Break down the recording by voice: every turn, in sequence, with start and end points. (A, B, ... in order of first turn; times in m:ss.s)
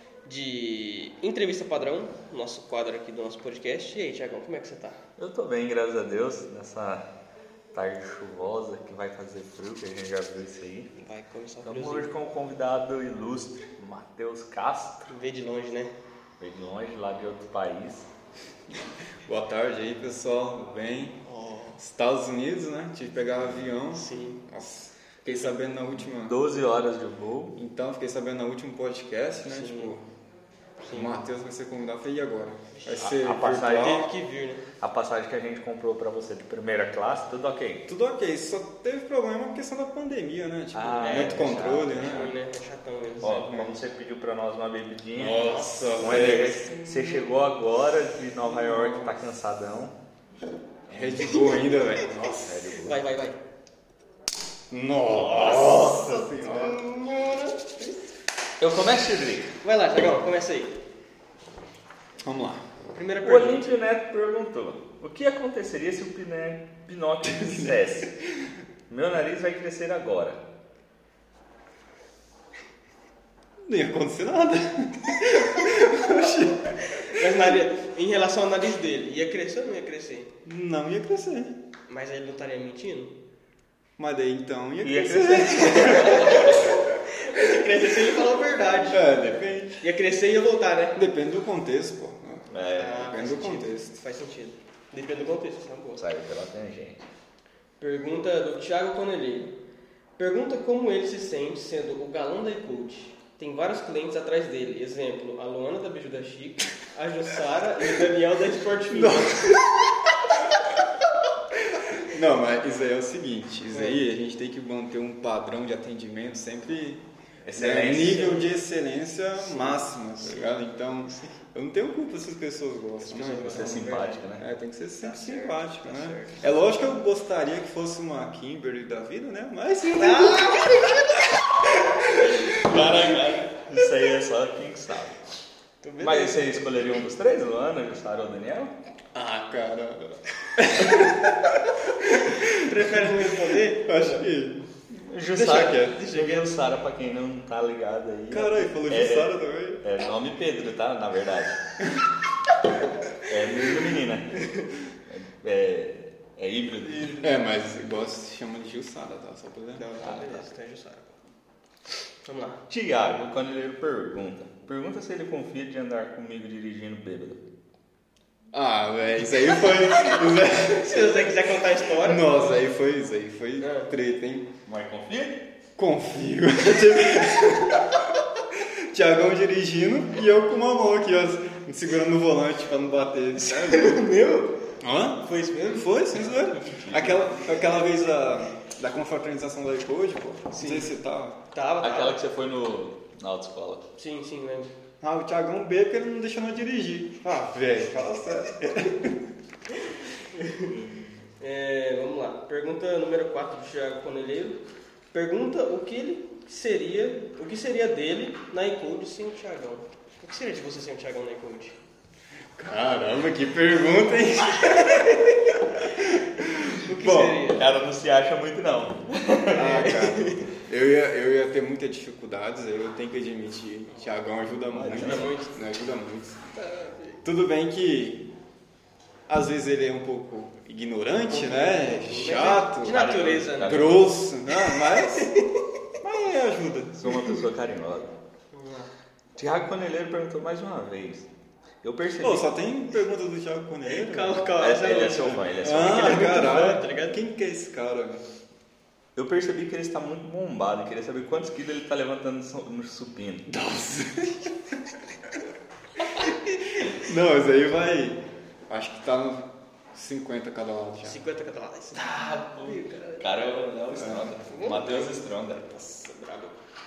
0:00.2-0:05.0 A
0:05.2-0:07.1 B
0:07.7-0:10.9 B
0:10.9-0:12.1 A
0:11.6-0:15.1 B
0:15.1-0:15.9 A
0:16.4-0:18.1 B
0:19.2-0:21.2 C
0:21.2-0:21.8 A
0:21.8-0:26.4 C
0:23.9-0:24.4 A
0:25.2-0:25.5 B
0:26.1-0:27.6 B
0:27.6-0:30.0 C
0:29.4-0:30.0 A
0:30.8-0:31.2 A
0:30.9-0:34.1 C
0:32.7-0:33.1 A
0:33.0-0:34.1 B
0:33.7-0:34.6 A
0:34.8-0:37.8 B
0:37.9-0:42.3 C
0:40.7-0:42.3 B
0:41.9-0:43.4 A
0:43.2-0:43.8 C
0:43.2-0:49.9 B
0:45.1-0:47.3 C
0:48.4-0:49.2 C
0:50.9-0:53.3 B
0:50.9-0:52.6 C
0:51.4-0:51.7 A
0:52.8-0:53.4 A
0:54.7-0:56.8 C
0:55.1-0:58.0 A
0:58.6-0:59.5 B
0:59.6-1:00.8 A
1:02.2-1:02.6 C
1:02.9-1:03.7 A
1:03.2-1:08.1 B
1:07.2-1:07.8 C
1:08.9-1:10.4 B
1:13.6-1:16.8 C
1:16.9-1:20.3 A
1:20.4-1:21.6 C
1:21.9-1:23.1 A
1:24.0-1:26.7 C
1:24.8-1:26.5 B
1:25.7-1:29.2 A
1:28.9-1:29.8 C
1:29.8-1:31.0 A
1:31.0-1:34.0 C
1:32.5-1:33.1 B
1:32.8-1:36.0 A
1:36.0-1:37.1 B
1:37.8-1:39.5 A
1:40.2-1:49.6 A
1:48.9-1:50.0 C
1:51.7-2:10.9 C
1:53.7-1:54.0 A
1:57.4-1:58.4 B
1:57.6-1:58.6 A
1:59.3-2:00.6 A
2:03.0-2:04.2 A
2:03.4-2:04.4 B
2:05.0-2:06.7 A
2:10.0-2:10.8 A
2:12.4-2:15.2 B
2:15.8-2:16.6 A
2:16.0-2:18.7 B
2:19.1-2:24.8 C
2:22.4-2:24.3 A
2:25.1-2:31.6 B
2:25.3-2:26.6 A
2:25.5-2:26.0 C
2:28.3-2:29.8 C
2:33.2-2:34.5 B
2:35.1-2:37.3 B
2:37.2-2:40.0 C
2:39.7-2:41.2 A
2:40.0-2:40.4 B
2:42.2-2:42.6 A
2:42.7-2:47.4 B
2:48.5-2:51.4 C
2:50.5-2:52.6 A
2:52.0-2:54.5 C
2:53.6-2:53.9 A
2:54.6-2:55.4 B
2:55.8-2:58.0 C
2:58.5-3:04.0 C
3:03.4-3:04.6 A
3:04.8-3:11.4 C
3:05.2-3:05.9 A
3:06.4-3:07.6 B
3:10.5-3:11.0 A
3:11.5-3:12.2 A
3:11.8-3:13.8 B
3:14.0-3:14.7 A
3:15.0-3:19.2 C
3:20.3-3:20.7 A
3:20.6-3:21.2 B
3:21.4-3:31.8 A
3:32.6-3:37.5 C
3:36.8-3:37.7 A
3:37.5-3:39.9 B
3:39.5-3:46.4 C
3:39.6-3:40.4 A
3:44.7-3:45.4 B
3:44.9-3:45.6 A
3:46.5-3:47.2 A
3:47.2-3:48.3 C
3:49.3-3:55.3 C
3:51.3-3:53.9 A
3:52.9-3:54.2 B
3:54.5-3:55.6 A
3:56.0-3:57.0 C
3:56.9-3:58.1 B
3:58.5-3:58.9 A
3:59.3-4:01.3 B
4:01.8-4:02.5 B
4:02.2-4:04.5 C
4:03.8-4:07.2 A
4:04.6-4:06.3 B
4:05.6-4:08.2 C
4:09.2-4:13.5 B
4:13.5-4:14.6 C
4:16.2-4:21.2 C
4:21.0-4:22.0 A
4:21.9-4:25.9 B
4:22.6-4:23.6 A
4:23.9-4:24.4 C
4:24.4-4:25.2 A
4:25.8-4:26.5 A